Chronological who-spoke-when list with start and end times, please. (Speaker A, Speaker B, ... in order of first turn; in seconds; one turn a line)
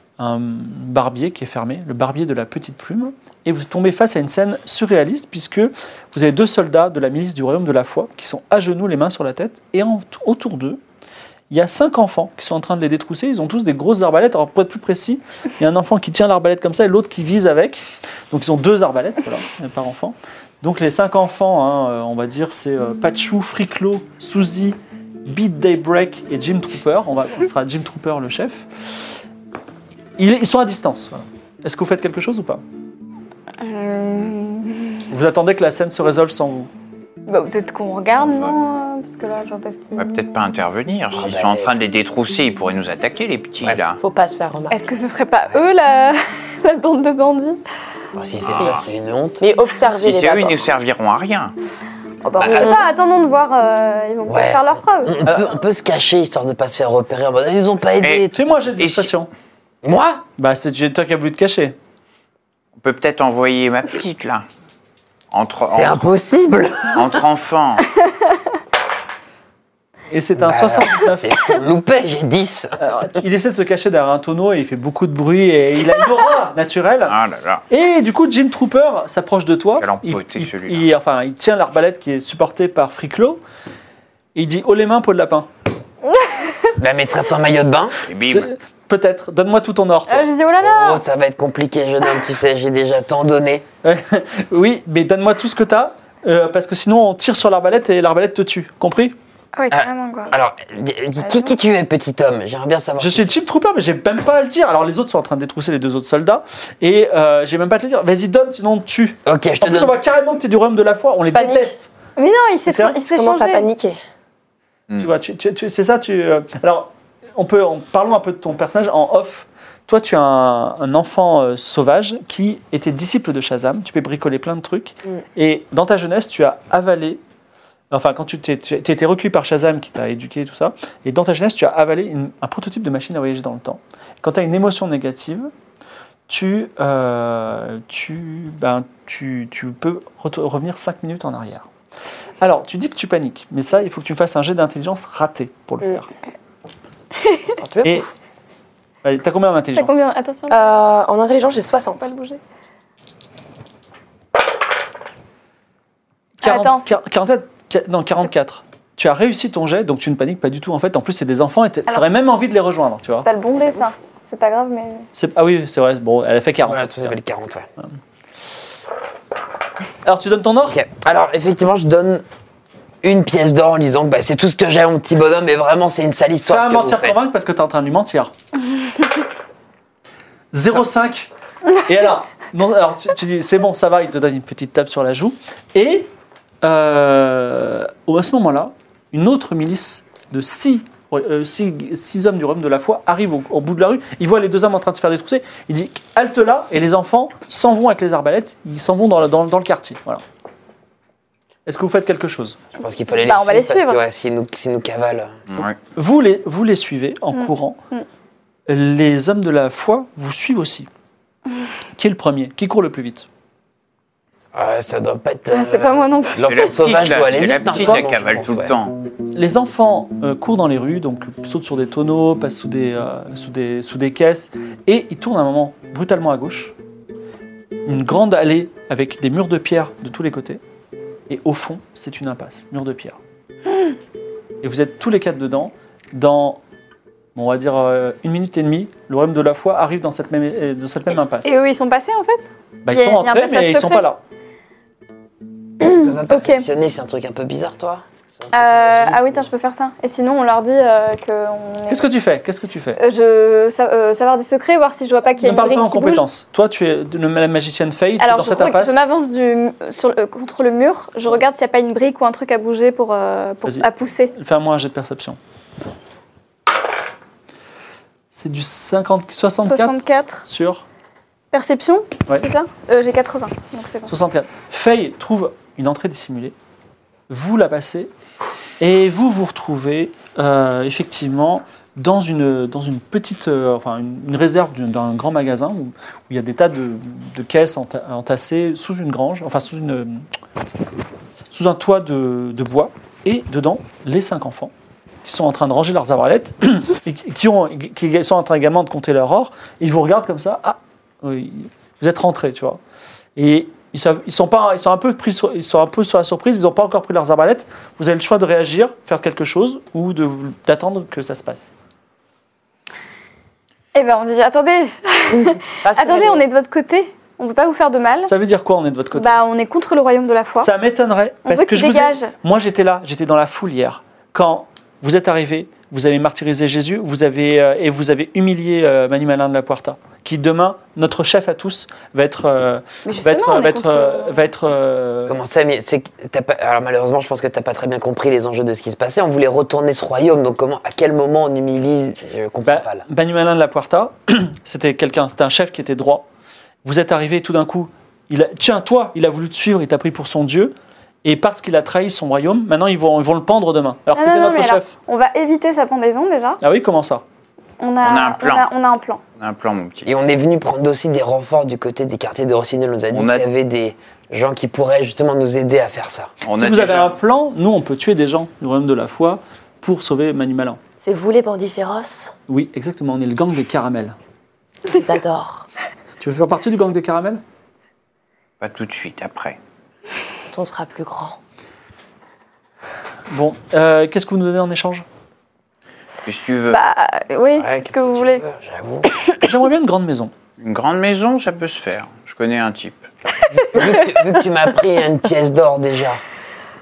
Speaker A: 0.2-10.8
Speaker A: 11.5-28.6
Speaker A: 30.2-32.6
Speaker B: 33.6-35.0
Speaker A: 35.1-36.7
Speaker B: 37.3-40.3
Speaker C: 38.1-38.5
Speaker C: 40.0-44.0
Speaker D: 41.1-41.7
Speaker E: 44.0-44.8
Speaker B: 44.7-47.6
Speaker D: 48.1-49.4
Speaker C: 48.4-48.8
Speaker E: 49.4-50.6
Speaker C: 50.0-51.5
Speaker B: 52.2-55.2
Speaker D: 52.4-52.8
Speaker D: 54.3-58.6
Speaker C: 58.0-59.1
Speaker A: 58.3-59.3
Speaker D: 59.8-60.2
Speaker A: 60.4-61.8
Speaker C: 62.8-64.5
Speaker C: 65.3-66.1
Speaker D: 65.7-67.2
Speaker C: 66.9-67.9
Speaker A: 70.1-71.4
Speaker D: 70.4-73.1
Speaker A: 72.8-77.1
Speaker C: 77.1-77.6
Speaker A: 77.7-83.4
Speaker C: 79.8-80.8
Speaker A: 84.3-85.5
Speaker B: 86.0-86.8
Speaker D: 86.8-88.0
Speaker C: 88.0-88.5
Speaker A: 88.2-90.3
Speaker B: 90.1-91.0
Speaker D: 90.6-93.6
Speaker A: 93.8-99.1
Speaker B: 99.5-100.3
Speaker D: 99.7-103.4
Speaker B: 101.2-101.5
Speaker A: 103.0-111.9
Speaker D: 109.2-110.0
Speaker E: 111.3-111.7
Speaker B: 112.2-113.7
Speaker A: 112.7-113.0
Speaker E: 113.1-114.0
Speaker A: 115.0-127.2
Speaker A: 127.9-135.5
Speaker A: 136.3-141.7
Speaker A: 142.4-146.1
Speaker E: 147.6-148.0
Speaker A: 149.0-150.0
Speaker B: 149.7-150.8
Speaker E: 150.5-152.1
Speaker B: 152.0-152.4
Speaker A: 156.4-163.3
Speaker B: 156.4-156.9
Speaker B: 163.2-165.1
Speaker A: 165.1-167.2
Speaker D: 166.6-167.7
Speaker A: 170.0-170.8
Speaker D: 170.7-172.2
Speaker D: 173.0-177.2
Speaker A: 176.4-178.3
Speaker A: 180.5-181.3
Speaker A: 181.8-186.1
Speaker A: 186.6-200.2
Speaker A: 201.7-202.6
Speaker D: 202.8-205.3
Speaker B: 203.1-204.0
Speaker C: 205.5-205.8
Speaker A: 205.9-207.8
Speaker B: 207.3-208.1
Speaker A: 208.7-210.9
Speaker A: 212.0-213.2
Speaker D: 214.5-218.7
Speaker B: 215.5-216.8
Speaker C: 216.4-218.9
Speaker A: 219.3-226.7
Speaker A: 227.8-230.6
Speaker A: 231.3-233.2
Speaker A: 234.6-236.6
Speaker A: 237.3-241.5
Speaker B: 241.4-244.1
Speaker A: 242.8-244.2
Speaker D: 245.8-249.4
Speaker B: 246.2-246.7
Speaker B: 248.5-252.0
Speaker A: 251.9-253.0
Speaker B: 253.0-256.2
Speaker A: 255.4-259.0
Speaker B: 258.2-264.3
Speaker A: 263.6-265.4
Speaker A: 268.3-270.8
Speaker B: 269.6-270.4
Speaker B: 271.5-274.1
Speaker A: 274.1-276.5
Speaker A: 277.3-278.1
Speaker A: 278.8-290.2
Speaker A: 291.5-294.7
Speaker A: 295.2-302.8
Speaker A: 303.4-311.7
Speaker B: 313.9-318.3
Speaker E: 315.4-316.4
Speaker A: 318.2-319.4
Speaker B: 319.1-320.7
Speaker A: 320.6-335.4
Speaker B: 321.4-322.3
Speaker B: 333.0-334.5
Speaker D: 335.3-343.0
Speaker A: 342.6-346.2
Speaker A: 346.8-354.9
Speaker B: 354.1-356.6
Speaker A: 356.6-357.2
Speaker B: 357.8-359.2
Speaker C: 358.0-358.7
Speaker C: 359.4-360.1
Speaker D: 360.0-366.3
Speaker C: 363.1-363.4
Speaker C: 366.4-367.1
Speaker A: 366.5-370.8
Speaker E: 371.0-372.3
Speaker A: 372.5-374.1
Speaker E: 374.9-375.7
Speaker A: 376.2-377.4
Speaker C: 378.6-379.6
Speaker E: 380.5-381.4
Speaker A: 383.3-385.0
Speaker C: 386.2-386.8
Speaker B: 386.7-388.4
Speaker D: 387.5-389.1
Speaker A: 389.4-390.3
Speaker C: 390.6-393.1
Speaker D: 393.5-396.2